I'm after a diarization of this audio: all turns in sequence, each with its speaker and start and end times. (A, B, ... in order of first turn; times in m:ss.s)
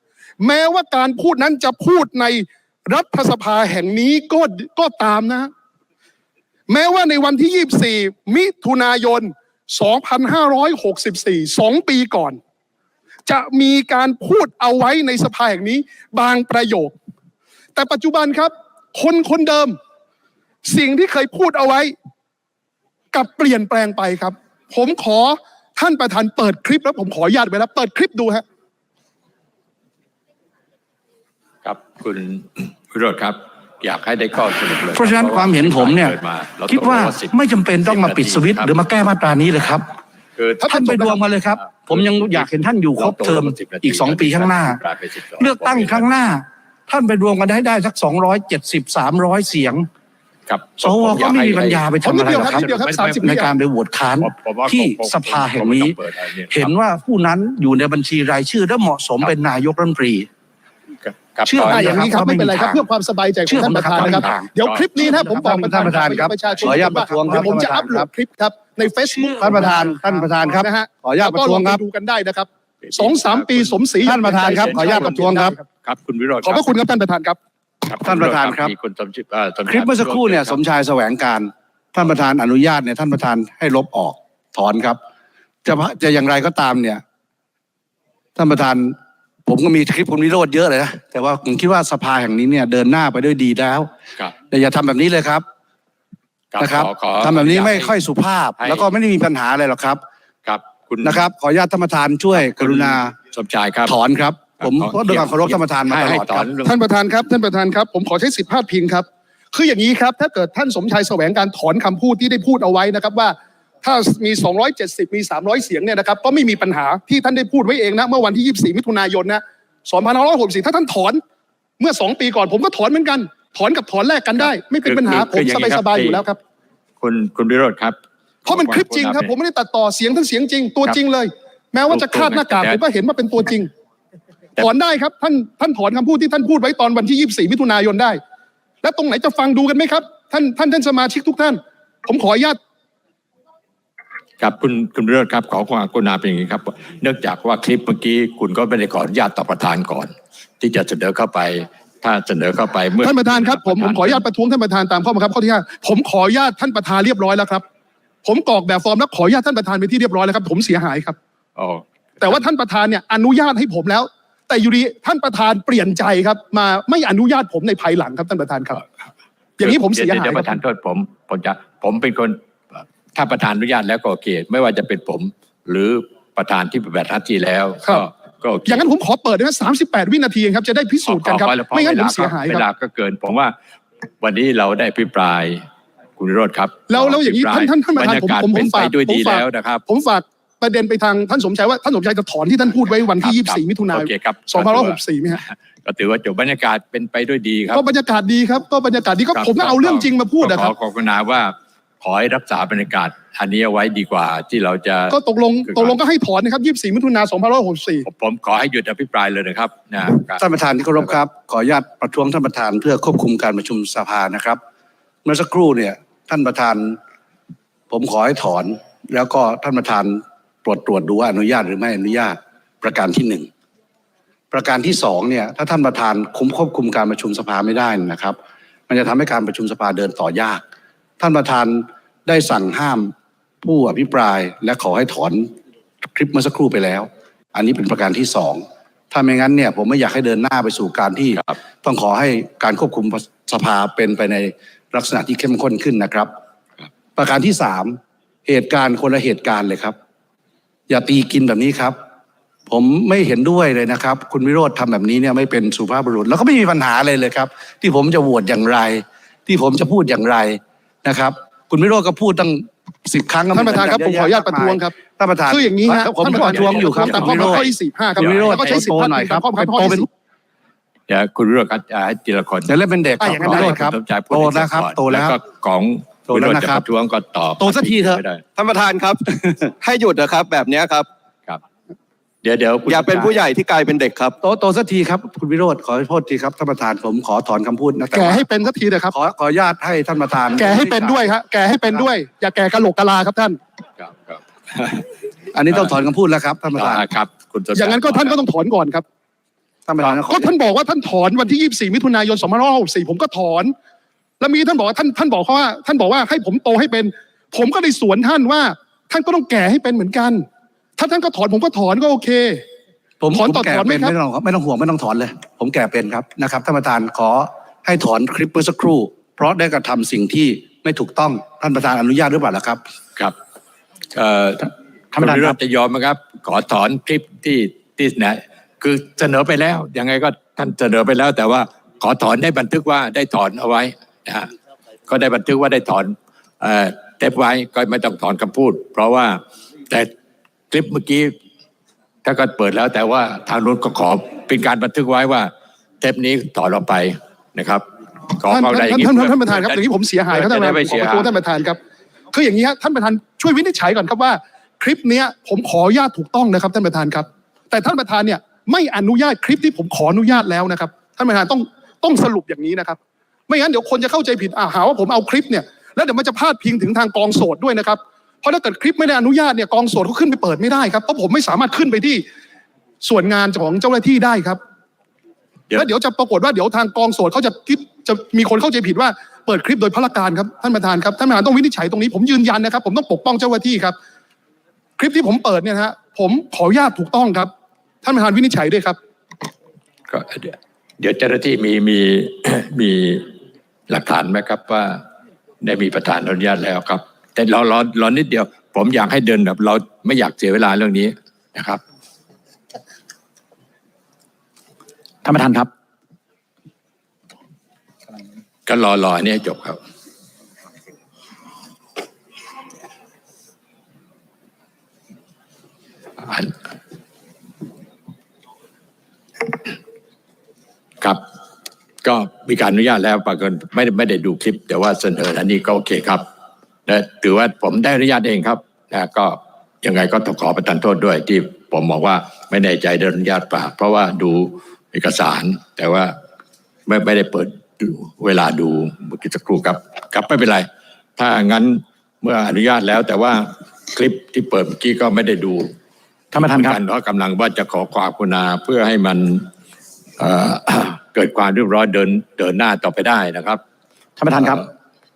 0:00.4-0:05.5 A
0:06.7-0:12.4 A
0:13.3-0:17.0 A
0:17.8-0:19.8 A
0:20.6-0:21.9 A
0:23.1-0:28.4 A
0:31.6-0:38.7 B
0:34.9-0:36.2 C
0:36.7-0:39.9 C
0:40.4-0:42.4 B
0:40.6-0:41.2 A
0:40.6-0:44.8 C
0:43.0-0:46.1 B
0:45.4-0:49.9 C
0:50.5-0:53.5 B
0:50.8-0:52.7 C
0:52.0-0:53.5 A
0:53.2-0:56.0 C
0:54.2-0:56.7 B
0:56.5-1:00.3 C
1:01.0-1:02.2 B
1:01.5-1:02.8 C
1:01.6-1:15.6 A
1:03.5-1:08.1 C
1:03.9-1:06.1 B
1:09.4-1:11.8 C
1:12.8-1:16.7 B
1:14.1-1:15.6 C
1:16.4-1:17.4 A
1:17.8-1:20.6 B
1:18.0-1:18.7 C
1:19.7-1:25.0 C
1:25.6-1:27.0 C
1:28.4-1:33.9 C
1:34.5-1:35.4 C
1:36.5-1:37.9 B
1:36.6-1:40.0 C
1:38.6-1:38.9 B
1:40.4-1:41.2 B
1:41.0-1:43.1 C
1:42.4-1:44.0 B
1:43.9-1:46.5 C
1:44.6-1:46.8 B
1:46.6-2:01.2 A
2:01.8-2:06.4 A
2:04.4-2:06.2 B
2:07.0-2:09.3 B
2:08.4-2:13.7 A
2:11.9-2:12.8 B
2:14.6-2:18.2 A
2:18.8-2:22.6 A
2:24.4-2:34.2 B
2:33.0-2:37.6 A
2:38.2-2:41.2 A
2:41.6-2:42.3 B
2:42.2-2:48.8 A
2:49.6-2:50.6 A
2:49.6-2:52.4 B
2:53.2-2:58.8 B
2:58.7-3:02.6 A
3:01.1-3:03.6 B
3:04.2-3:05.6 B
3:06.2-3:09.8 B
3:06.9-3:15.4 A
3:13.2-3:17.8 B
3:17.7-3:20.7 A
3:19.3-3:25.2 B
3:25.1-3:28.1 A
3:25.7-3:26.0 B
3:28.0-3:30.4 B
3:30.3-3:34.6 C
3:35.2-3:37.0 C
3:37.9-3:43.5 C
3:44.5-3:48.4 C
3:48.9-3:50.6 C
3:51.2-3:55.5 C
3:56.0-4:06.3 C
4:07.2-4:10.0 C
4:10.9-4:12.0 C
4:12.7-4:27.6 C
4:23.5-4:25.0 A
4:25.5-4:30.1 A
4:26.2-4:28.8 B
4:28.2-4:30.1 C
4:31.1-4:32.8 B
4:32.7-4:35.4 C
4:33.2-4:33.8 A
4:33.3-4:38.4 B
4:36.3-4:36.8 C
4:37.6-4:38.2 C
4:38.6-4:41.1 D
4:42.4-4:43.4 B
4:42.9-4:44.4 D
4:44.4-4:48.4 C
4:48.1-4:49.1 A
4:49.1-4:51.3 C
4:50.6-4:53.6 A
4:54.0-4:55.1 B
4:55.5-4:57.1 C
4:56.7-4:58.4 B
4:57.8-4:59.0 A
4:59.9-5:00.5 C
5:00.3-5:03.7 A
5:04.4-5:10.5 A
5:11.0-5:12.6 A
5:13.2-5:22.8 C
5:13.3-5:14.1 A
5:24.2-5:34.5 B
5:25.2-5:25.6 E
5:35.1-5:40.1 B
5:40.7-5:41.3 B
5:42.2-5:47.8 B
5:48.4-5:51.3 B
5:48.5-5:51.8 A
5:52.3-6:12.2 A
6:13.0-6:14.6 A
6:15.7-6:24.0 A
6:25.0-6:27.5 A
6:28.0-6:29.0 A
6:30.1-6:33.3 B
6:33.9-6:35.0 B
6:35.6-6:41.8 B
6:45.2-6:45.7 E
6:48.7-6:49.8 B
6:56.2-6:56.5 B
7:02.0-7:06.2 B
7:06.9-7:16.1 B
7:16.9-7:20.7 B
7:21.2-7:25.7 B
7:26.3-7:26.8 E
7:26.4-7:29.5 B
7:30.2-7:33.6 B
7:34.2-7:34.7 E